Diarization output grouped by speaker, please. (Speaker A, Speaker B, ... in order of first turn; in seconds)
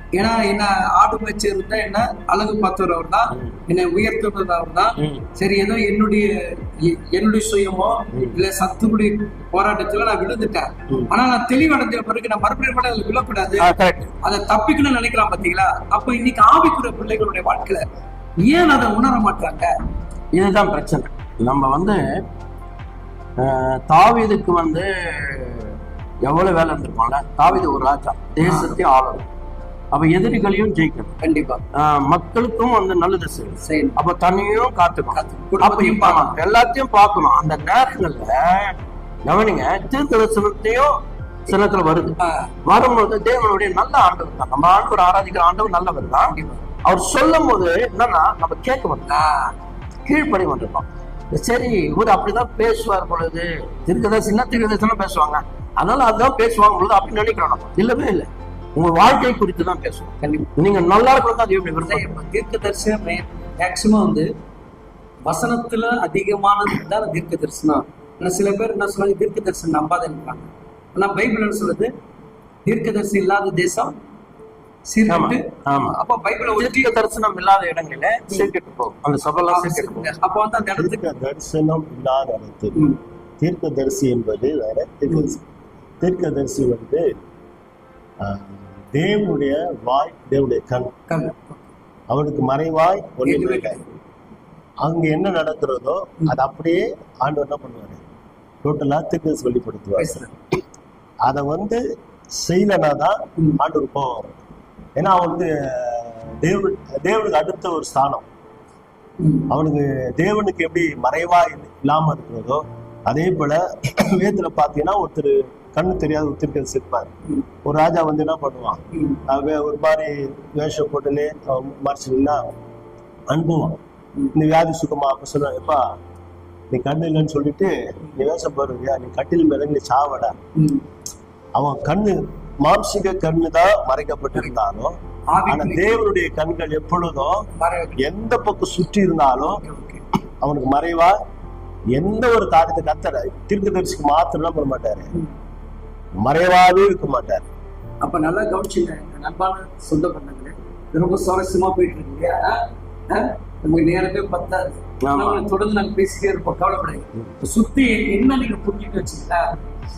Speaker A: 0.1-13.7, 14.2-17.8, 18.4-19.7, 28.4-28.8, 31.2-31.6, 33.6-34.0, 35.1-36.4, 42.2-42.5, 46.2-46.7, 49.1-49.5, 60.2-60.5, 61.8-64.3, 65.3-71.9, 72.7-74.0, 74.9-76.9, 79.5-81.0, 82.7-83.0, 85.1-85.4, 91.1-91.7, 93.2-94.0, 100.0-100.4, 109.2-109.5, 118.9-119.2, 130.6-130.8, 135.3-136.1, 137.6-138.0, 139.5-140.0, 148.0-159.5
Speaker B: 5.0-5.2, 13.6-14.1, 20.3-22.0, 23.4-29.2, 29.9-31.1, 31.7-49.1, 50.1-62.0, 75.1-76.0, 76.5-80.1, 155.0-155.4
Speaker C: 80.8-82.9, 83.4-85.4, 86.0-87.1, 88.2-90.9, 92.1-93.8, 94.8-98.0, 98.6-100.1, 101.2-101.8, 102.3-104.3, 105.0-108.2, 109.5-117.1, 117.6-122.4, 123.3-123.8, 124.3-125.8, 126.7-130.4, 131.6-135.0, 135.5-137.4, 138.0-139.6, 140.4-141.1, 141.9-145.1, 146.2-147.5